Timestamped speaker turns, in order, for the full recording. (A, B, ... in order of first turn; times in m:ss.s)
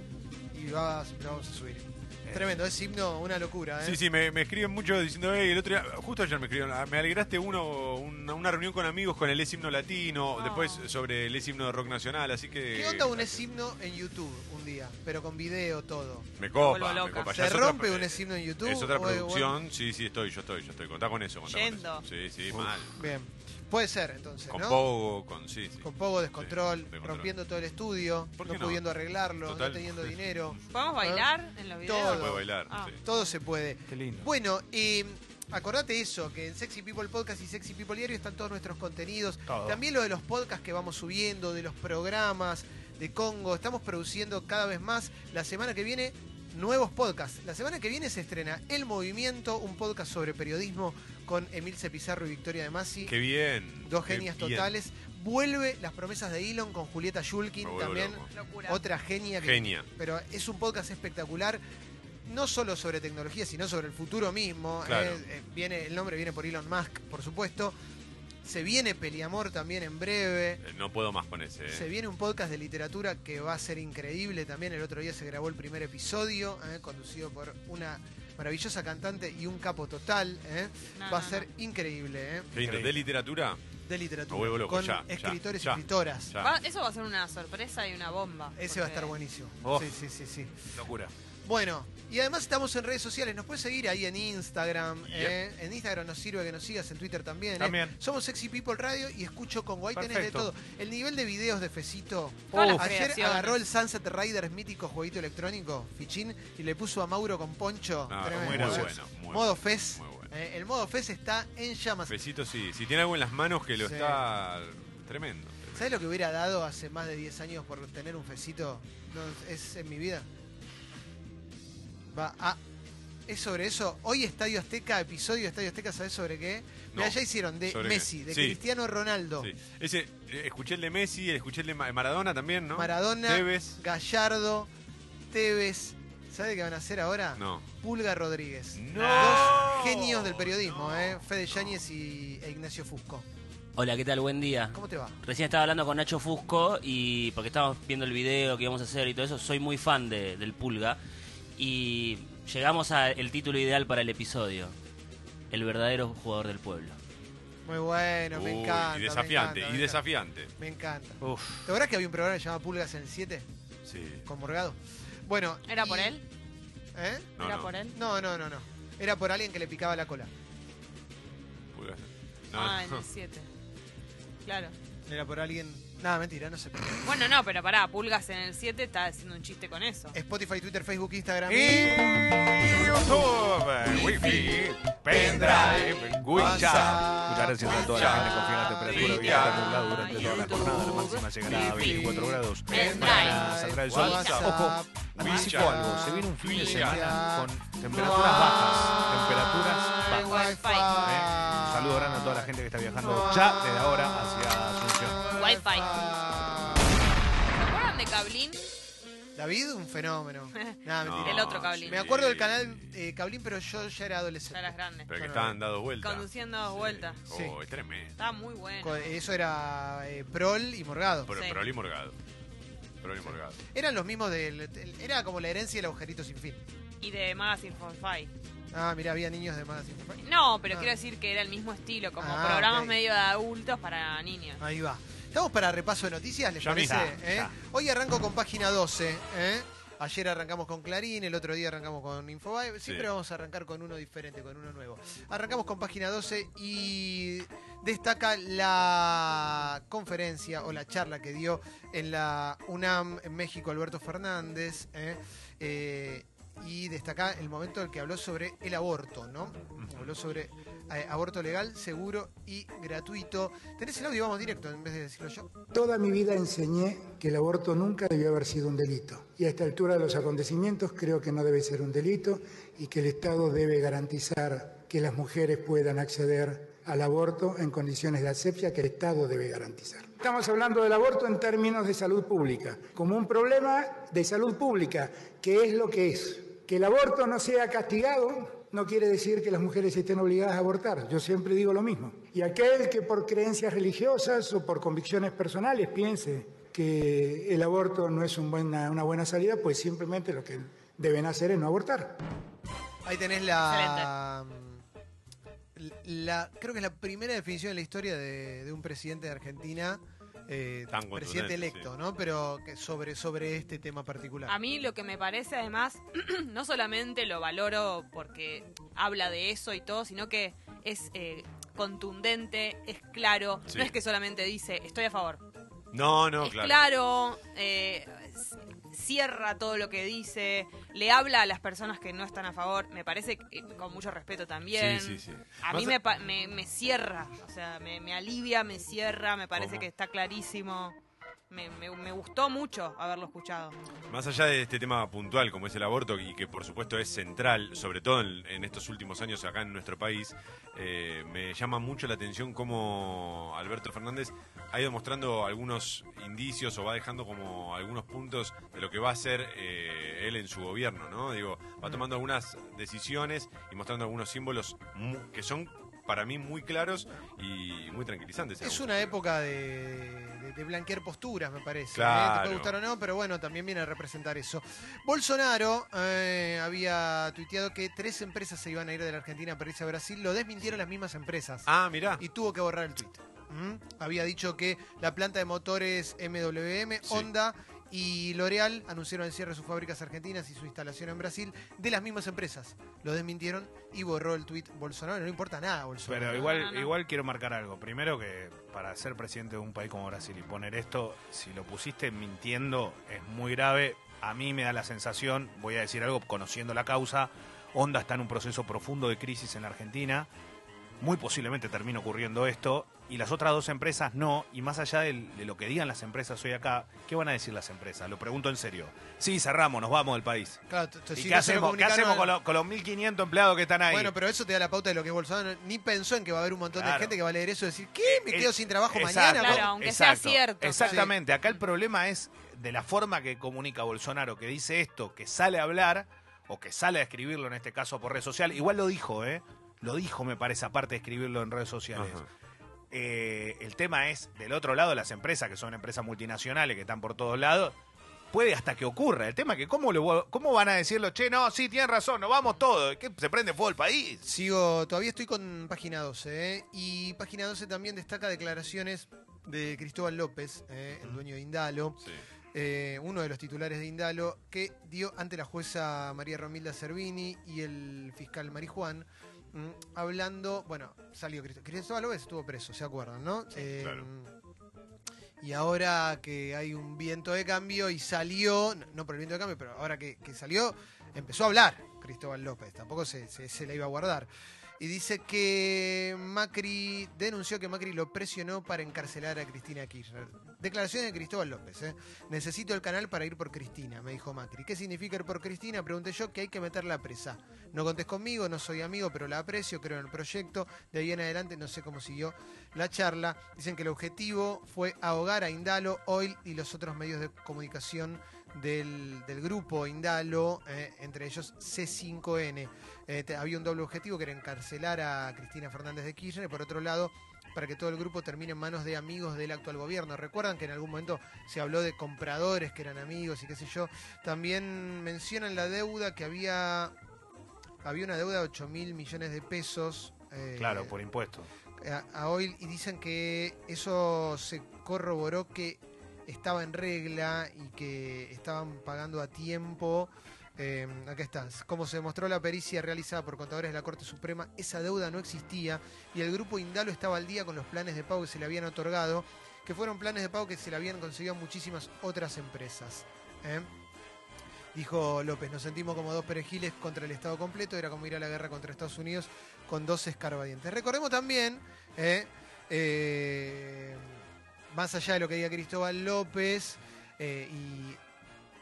0:00.5-0:04.0 A
0:02.2-0:02.6 B
0:03.8-0:13.4 C
0:10.4-0:10.9 D
0:12.7-0:16.3 A
0:16.4-0:23.0 C
0:16.6-0:17.4 D
0:17.3-0:19.6 A
0:21.5-0:22.1 D
0:22.5-0:22.8 B
0:22.9-0:24.8 A
0:24.5-0:27.3 C
0:25.8-0:31.3 A
0:28.4-0:28.8 C
0:29.4-0:30.1 C
0:30.7-0:33.3 D
0:31.8-0:53.1 A
0:32.1-0:33.0 C
0:33.9-0:34.3 B
0:39.5-0:39.8 B
0:53.1-0:54.7 C
0:53.8-1:01.6 A
0:57.6-0:58.3 C
0:58.3-0:58.8 D
0:59.4-0:59.9 C
1:02.3-1:07.8 A
1:04.8-1:05.2 C
1:08.4-1:10.6 A
1:10.6-1:11.9 C
1:11.7-1:22.9 A
1:21.0-1:21.5 D
1:22.5-1:23.6 C
1:22.6-1:23.0 B
1:23.9-1:26.3 A
1:24.3-1:26.5 C
1:26.4-1:29.1 D
1:28.6-1:30.6 A
1:29.6-1:30.0 B
1:30.7-1:31.1 B
1:31.4-1:52.2 A
1:37.6-1:38.0 B
1:39.9-1:40.5 B
1:42.5-1:42.9 B
1:42.5-1:43.6 D
1:48.1-1:50.3 C
1:48.2-1:49.0 B
1:52.1-1:55.9 C
1:53.8-1:54.2 A
1:55.8-2:00.3 A
2:02.1-2:02.6 A
2:03.3-2:09.5 A
2:06.9-2:08.6 C
2:09.4-2:13.8 C
2:12.7-2:14.7 A
2:15.3-2:23.3 A
2:17.4-2:17.7 C
2:18.8-2:21.7 C
2:18.9-2:20.0 B
2:23.8-2:31.0 E
2:24.7-2:25.2 A
2:31.6-2:34.7 E
2:35.5-2:37.0 E
2:37.7-2:40.0 A
2:38.3-2:40.5 C
2:40.6-2:43.5 A
2:41.2-2:41.7 B
2:43.8-2:44.3 C
2:44.3-2:46.2 A
2:45.7-2:46.2 D
2:47.0-2:47.3 A
2:47.4-2:47.7 C
2:47.4-2:48.0 D
2:47.9-2:50.3 A
2:51.7-2:53.0 C
2:52.5-2:53.5 D
2:54.4-2:54.7 D
2:55.1-2:57.1 A
2:57.0-3:00.2 D
3:00.1-3:02.0 A
3:01.5-3:25.2 B
3:04.0-3:04.6 C
3:05.1-3:08.3 A
3:06.4-3:06.9 C
3:07.7-3:10.7 C
3:08.2-3:14.4 D
3:11.5-3:24.4 A
3:13.9-3:14.5 C
3:15.2-3:17.2 C
3:20.0-3:21.2 D
3:25.1-3:27.2 A
3:25.4-3:26.0 D
3:27.5-3:28.7 D
3:29.4-3:35.6 A
3:30.6-3:32.0 D
3:31.0-3:32.9 C
3:34.5-3:35.1 D
3:35.1-3:38.1 C
3:36.0-3:37.2 D
3:37.3-3:37.6 A
3:38.2-3:39.2 D
3:38.8-3:41.3 A
3:41.3-3:42.2 C
3:41.3-3:41.6 D
3:43.0-3:43.6 C
3:43.3-3:46.6 A
3:47.0-3:48.3 D
3:48.7-3:50.9 A
3:50.2-3:54.6 D
3:52.2-3:53.0 A
3:54.6-4:25.5 A
3:56.6-3:57.0 C
3:56.7-3:57.6 B
4:25.7-5:02.2 F
5:03.0-5:04.8 A
5:03.6-5:04.1 D
5:05.8-5:14.6 A
5:10.9-5:11.9 C
5:14.5-5:25.4 D
5:25.9-5:26.8 C
5:26.4-5:41.0 D
5:34.7-5:36.0 C
5:39.6-5:39.9 C
5:41.5-5:43.8 D
5:44.1-6:09.1 C
6:08.6-6:36.5 A
6:11.9-6:12.7 C
6:21.7-6:22.2 C
6:36.1-6:50.3 B
6:36.4-6:36.9 D
6:51.0-7:00.6 B
7:00.7-7:02.3 A
7:01.1-7:04.1 B
7:03.9-7:09.7 A
7:06.7-7:07.2 B
7:08.0-7:22.3 B
7:09.4-7:11.0 D
7:10.8-7:11.1 A
7:22.0-7:22.3 C
7:22.9-7:27.8 B
7:28.3-7:34.2 B
7:34.2-7:42.0 A
7:42.5-7:54.3 A
7:53.8-7:54.1 C
7:55.4-8:04.3 A
8:04.8-8:46.9 A
8:47.8-8:51.0 A
8:50.6-8:51.5 B
8:51.8-9:13.7 A
9:14.7-9:24.2 A
9:24.7-9:28.0 A